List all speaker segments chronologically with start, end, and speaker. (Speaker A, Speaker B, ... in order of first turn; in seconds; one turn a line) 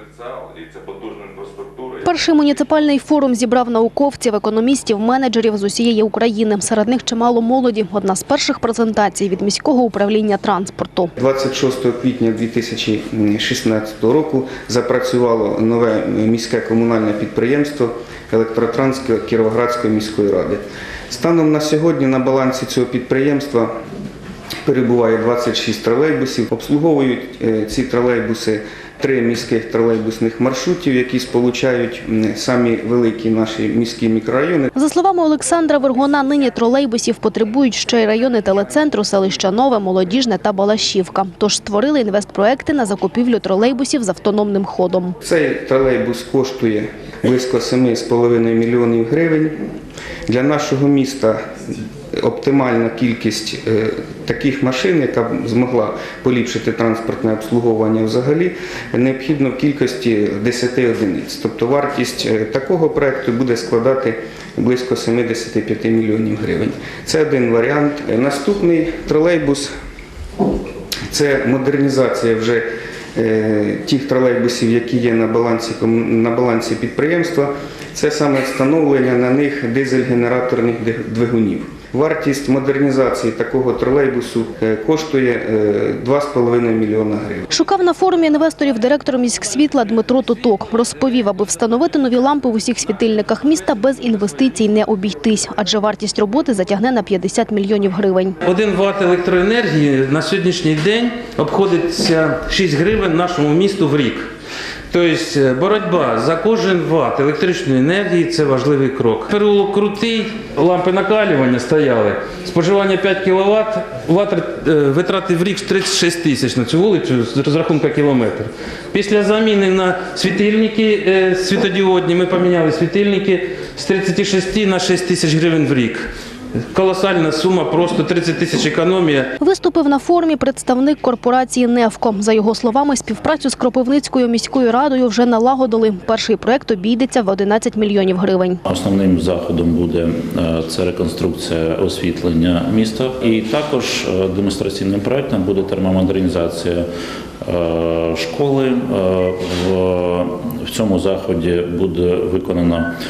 Speaker A: 2.0-11.1
Speaker B: 11.2-23.7
Speaker B: 24.6-34.7
Speaker A: 34.7-45.2
Speaker B: 45.2-49.5
Speaker B: 50.3-51.4
Speaker B: 52.2-69.7
Speaker B: 71.1-87.5
Speaker A: 87.5-98.4
Speaker C: 98.4-104.3
Speaker C: 104.9-126.0
Speaker C: 126.7-129.3
Speaker A: 129.4-138.6
Speaker D: 138.7-146.9
Speaker D: 147.4-152.9